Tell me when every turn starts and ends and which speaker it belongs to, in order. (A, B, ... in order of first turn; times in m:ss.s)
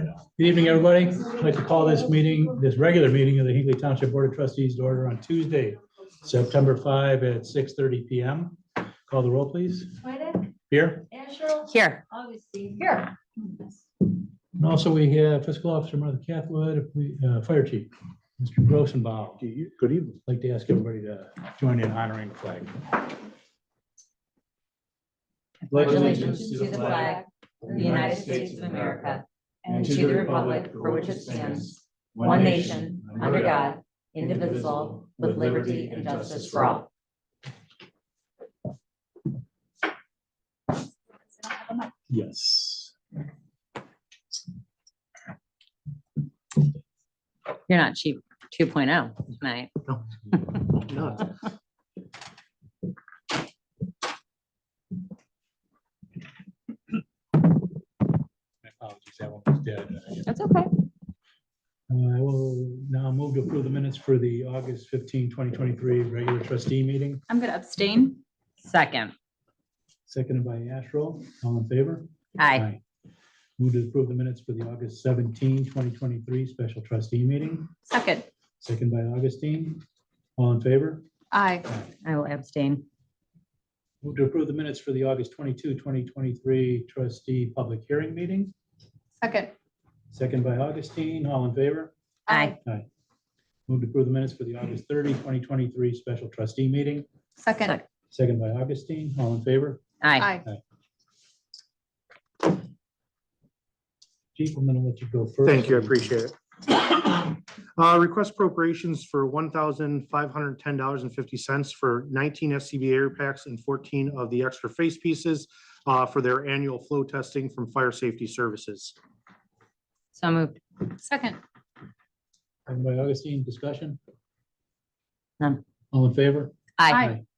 0:00.2-0:10.0 A
0:10.7-0:11.1 A
0:11.1-0:13.1 B
0:14.5-0:19.4 A
0:19.4-0:20.2 C
0:20.2-0:22.8 A
0:25.6-0:36.9 B
0:25.7-0:27.0 A
0:25.9-0:27.2 D
0:27.7-0:28.9 A
0:29.6-0:29.9 D
0:29.7-0:33.7 A
0:34.2-0:36.8 A
0:41.3-0:41.9 D
0:42.1-0:42.9 A
0:47.7-0:49.7 B
0:50.6-0:51.3 C
0:58.6-1:00.3 A
1:00.3-1:00.7 B
1:01.9-1:07.2 A
1:07.3-1:08.2 D
1:08.6-1:09.1 B
1:10.1-1:12.8 A
1:12.4-1:12.6 B
1:13.6-1:17.7 A
1:17.9-1:18.3 D
1:18.6-1:19.8 A
1:20.4-1:21.0 A
1:21.3-1:21.7 D
1:22.0-1:22.8 B
1:24.0-1:28.5 A
1:29.2-1:29.5 D
1:30.1-1:31.9 A
1:32.3-1:32.6 D
1:32.3-1:32.6 B
1:33.7-1:37.0 A
1:37.4-1:37.8 D
1:38.1-1:39.8 A
1:40.0-1:40.3 B
1:40.2-1:40.5 D
1:44.3-1:46.1 A
1:45.4-1:58.9 C
2:00.1-2:00.6 B
2:01.0-2:01.4 D
2:02.6-2:04.0 A
2:05.9-2:07.2 A
2:06.8-2:07.0 B
2:06.9-2:07.2 D